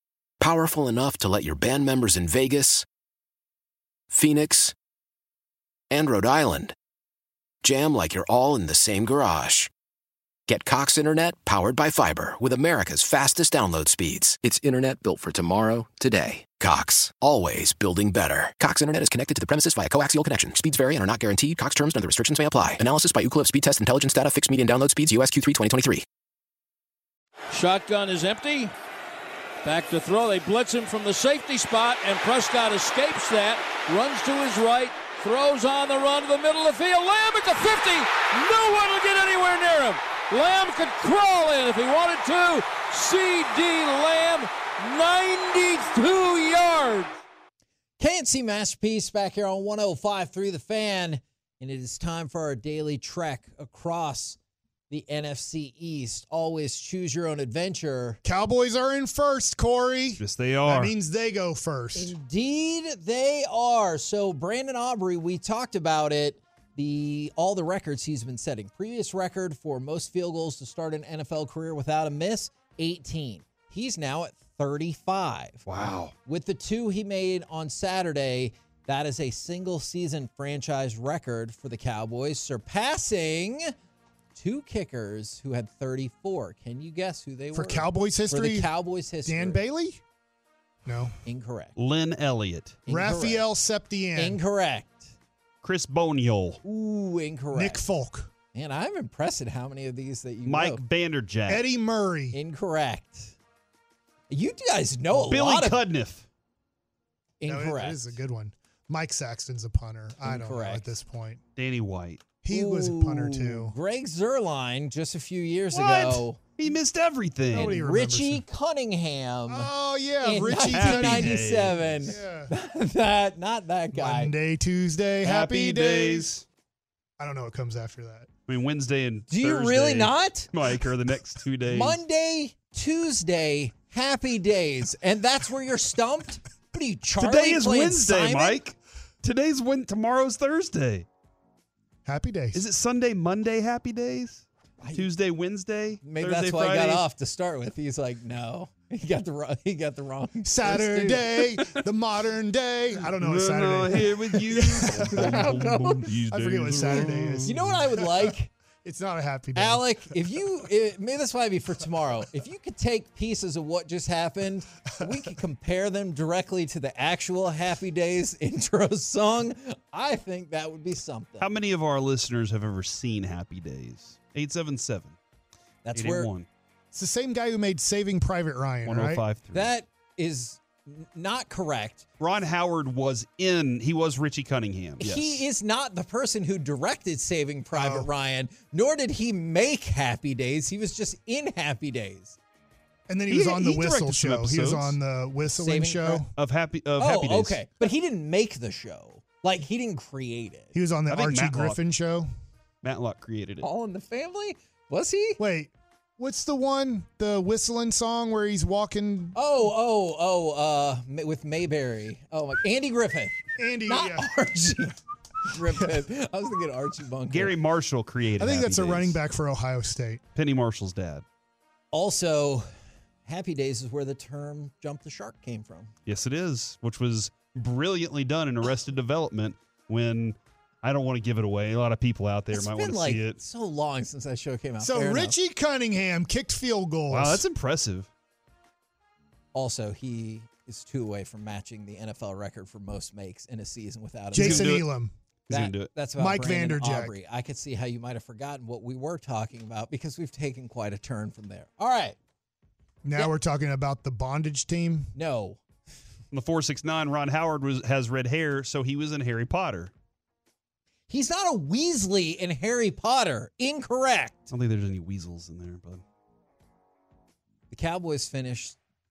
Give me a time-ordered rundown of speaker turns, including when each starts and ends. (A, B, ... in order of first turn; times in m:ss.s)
0:00.4-0:02.8 A
0:04.1-0:04.7 A
0:05.9-0:06.7 A
0:07.6-0:09.7 A
0:10.5-0:26.0 A
0:27.5-0:28.7 B
0:29.6-0:47.1 B
0:48.0-0:54.4 C
0:54.9-0:58.2 C
0:58.2-1:02.1 D
1:00.2-1:00.9 E
1:01.9-1:15.6 C
1:15.6-1:16.1 E
1:16.2-1:23.7 C
1:24.3-1:29.6 C
1:27.5-1:28.7 D
1:29.2-1:30.0 D
1:30.8-1:31.1 D
1:31.2-1:31.7 C
1:31.8-1:32.8 E
1:32.8-1:33.5 C
1:32.9-1:34.4 D
1:34.2-1:35.1 C
1:35.6-1:36.6 E
1:36.6-1:37.8 C
1:37.5-1:38.3 D
1:38.5-1:40.8 C
1:40.4-1:41.6 E
1:41.5-1:42.4 D
1:42.3-1:43.3 C
1:44.3-1:45.8 C
1:45.3-1:46.3 E
1:47.4-1:48.1 C
1:47.4-1:51.4 D
1:50.2-1:50.9 C
1:51.6-1:52.2 E
1:52.4-1:53.7 D
1:52.5-1:56.4 C
1:55.7-1:57.8 E
1:57.5-1:58.4 D
1:57.5-1:59.7 C
1:59.5-2:01.5 D
2:00.2-2:04.3 C
2:00.7-2:02.0 E
2:02.0-2:02.5 D
2:03.9-2:06.3 D
2:05.2-2:06.4 E
2:07.2-2:08.3 D
2:08.5-2:12.0 E
2:09.3-2:10.5 C
2:11.7-2:18.6 C
2:17.2-2:21.0 E
2:22.0-2:22.6 D
2:22.5-2:27.0 E
2:24.8-2:25.1 C
2:26.0-2:31.4 C
2:30.4-2:35.5 D
2:33.2-2:37.6 E
2:35.0-2:36.0 C
2:36.3-2:40.1 D
2:37.4-2:38.5 C
2:39.6-2:51.5 C
2:51.4-2:55.2 E
2:55.8-2:56.3 C
2:55.9-2:56.5 E
2:56.9-2:59.2 D
2:58.8-2:59.7 E
2:59.5-3:02.0 C
3:02.2-3:05.4 E
3:05.0-3:12.4 C
3:07.7-3:08.1 D
3:13.1-3:16.3 D
3:13.3-3:15.0 E
3:15.5-3:16.2 C
3:16.4-3:17.6 E
3:17.0-3:20.7 C
3:20.7-3:22.3 D
3:21.1-3:21.8 E
3:22.8-3:23.7 E
3:23.6-3:25.4 C
3:25.4-3:29.4 D
3:29.3-3:37.5 C
3:33.6-3:34.3 D
3:37.3-3:39.2 E
3:38.4-3:40.2 D
3:40.4-3:41.2 E
3:41.9-3:42.7 C
3:43.2-3:45.9 C
3:46.0-3:53.4 E
3:52.5-3:55.4 C
3:54.8-3:57.4 D
3:57.1-3:58.1 E
3:59.5-4:04.8 C
4:04.3-4:05.1 D
4:04.3-4:04.9 E
4:05.5-4:05.9 E
4:05.5-4:12.2 C
4:06.2-4:07.1 D
4:13.0-4:15.1 D
4:15.1-4:15.6 C
4:16.3-4:19.9 E
4:21.1-4:24.4 C
4:24.5-4:26.0 E
4:27.7-4:28.8 C